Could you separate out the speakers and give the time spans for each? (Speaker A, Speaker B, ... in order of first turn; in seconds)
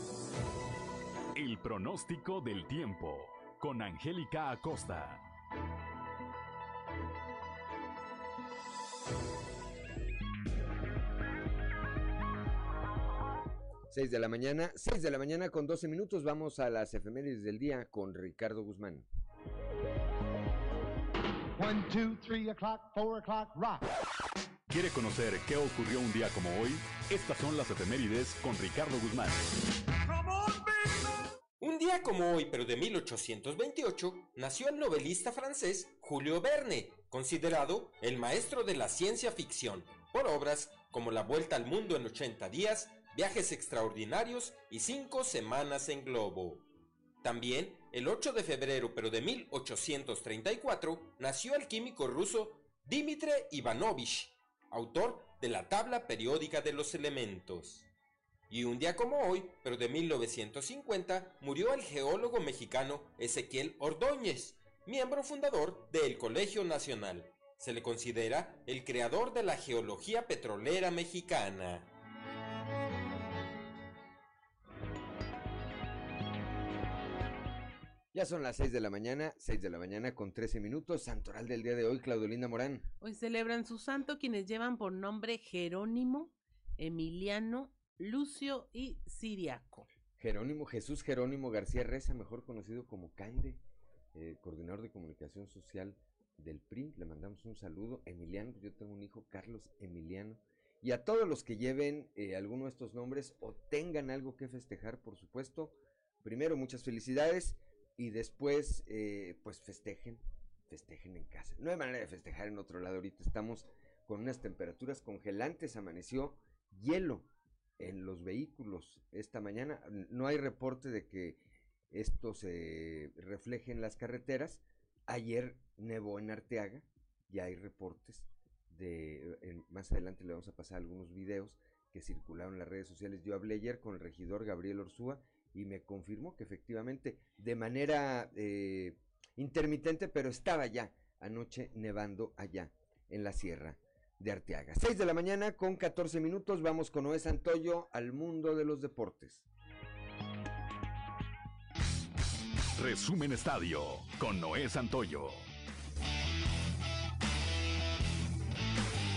Speaker A: 1.3-5.2, 24.7-29.5, 152.8-155.4
Speaker B: 13.9-19.1, 78.1-82.8, 90.2-93.6, 94.1-117.3, 117.8-149.5
Speaker C: 21.6-23.8, 30.0-31.1
Speaker D: 31.6-46.6, 47.2-57.9, 58.5-71.8
Speaker E: 83.0-89.8